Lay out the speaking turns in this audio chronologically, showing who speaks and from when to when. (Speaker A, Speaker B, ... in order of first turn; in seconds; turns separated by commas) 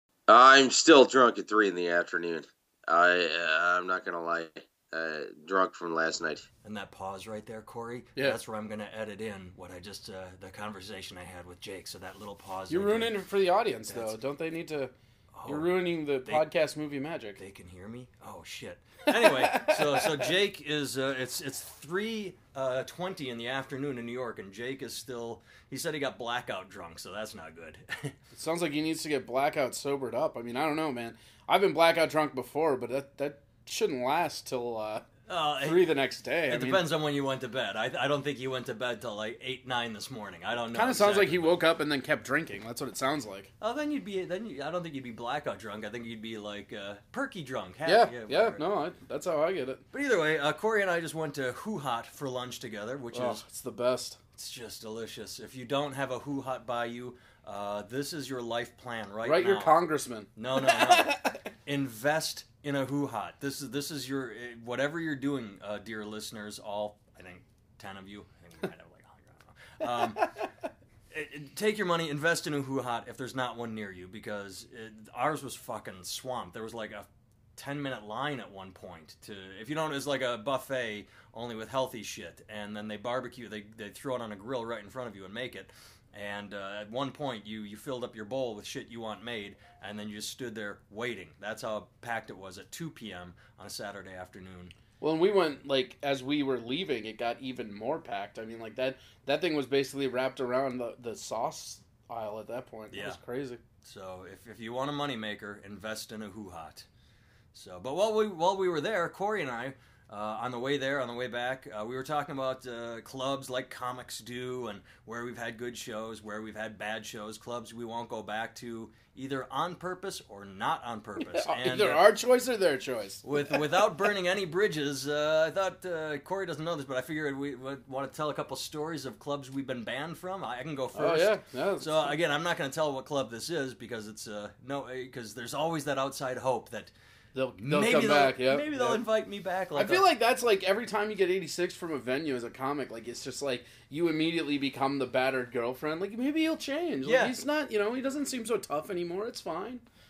Speaker A: 0.3-6.5, Speaker B: 6.6-13.1, Speaker C: 12.7-14.9, Speaker B: 13.9-14.2, Speaker B: 15.3-16.4, Speaker C: 15.4-17.4, Speaker B: 17.4-28.1, Speaker C: 19.1-20.2, Speaker C: 28.3-35.1, Speaker B: 35.3-35.9, Speaker C: 35.6-36.8, Speaker B: 36.5-41.5, Speaker C: 40.7-43.5, Speaker B: 43.6-48.6, Speaker C: 47.8-49.8, Speaker B: 49.9-53.4, Speaker C: 53.1-54.2, Speaker B: 54.3-59.8, Speaker C: 59.2-61.4, Speaker B: 60.4-70.3, Speaker B: 71.1-94.7, Speaker C: 95.0-103.6, Speaker B: 102.9-103.2, Speaker B: 103.8-106.9, Speaker B: 107.5-122.0, Speaker C: 121.2-123.9, Speaker B: 123.2-136.9, Speaker C: 130.9-132.2, Speaker C: 137.3-139.0, Speaker B: 137.6-140.0, Speaker C: 139.7-149.8, Speaker B: 147.0-147.4